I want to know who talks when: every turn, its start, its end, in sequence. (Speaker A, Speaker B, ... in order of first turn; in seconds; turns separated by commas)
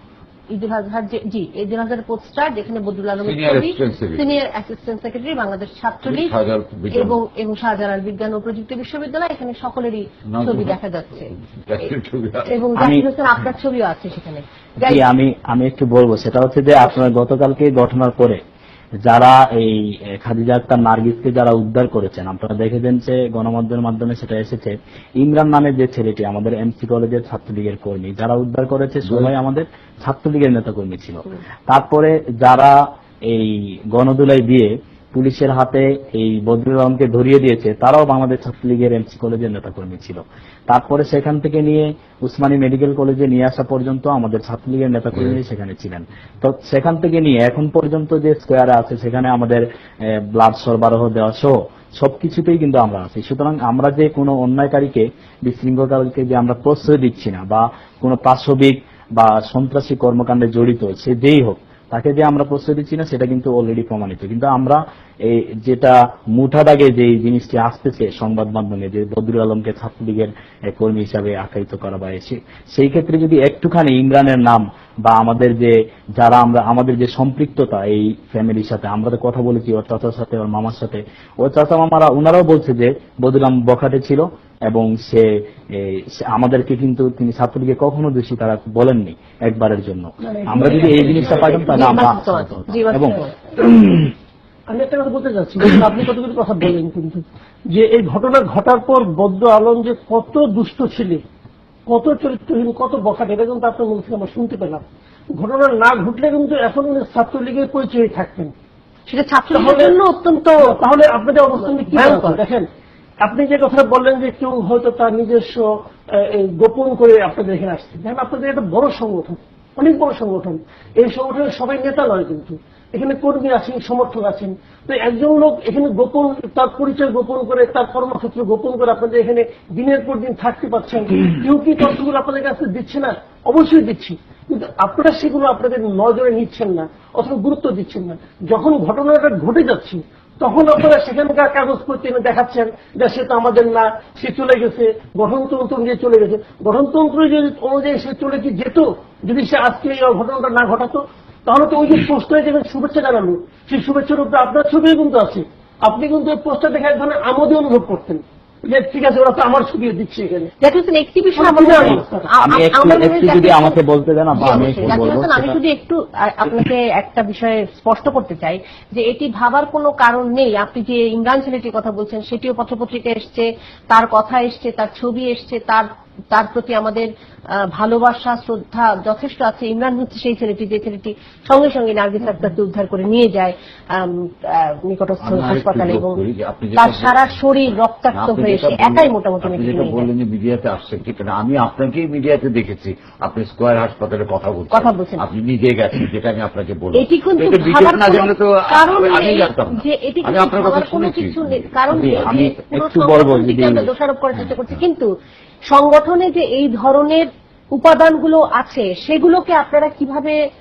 Speaker A: 0.5-6.3, Speaker B: 3.2-4.3, Speaker B: 6.1-7.2, Speaker A: 6.9-11.3, Speaker B: 10.3-10.7, Speaker B: 11.7-12.5, Speaker A: 12.5-15.0, Speaker C: 12.8-13.1, Speaker C: 14.8-18.4, Speaker C: 19.0-94.1, Speaker B: 29.0-29.3, Speaker B: 45.1-45.4, Speaker D: 90.2-91.8, Speaker B: 91.1-91.9, Speaker A: 91.3-93.4, Speaker D: 94.7-101.2, Speaker D: 101.9-108.5, Speaker A: 109.1-110.8, Speaker D: 109.5-110.0, Speaker D: 110.6-112.7, Speaker A: 111.7-112.4, Speaker D: 113.2-160.5, Speaker A: 160.6-163.8, Speaker D: 161.3-162.3, Speaker C: 161.8-165.6, Speaker A: 164.3-186.2, Speaker B: 164.4-165.0, Speaker B: 185.2-187.4, Speaker A: 186.8-190.1, Speaker B: 188.1-202.5, Speaker A: 194.7-195.2, Speaker A: 196.9-205.1, Speaker C: 201.9-203.9, Speaker B: 204.5-204.8, Speaker A: 205.7-210.4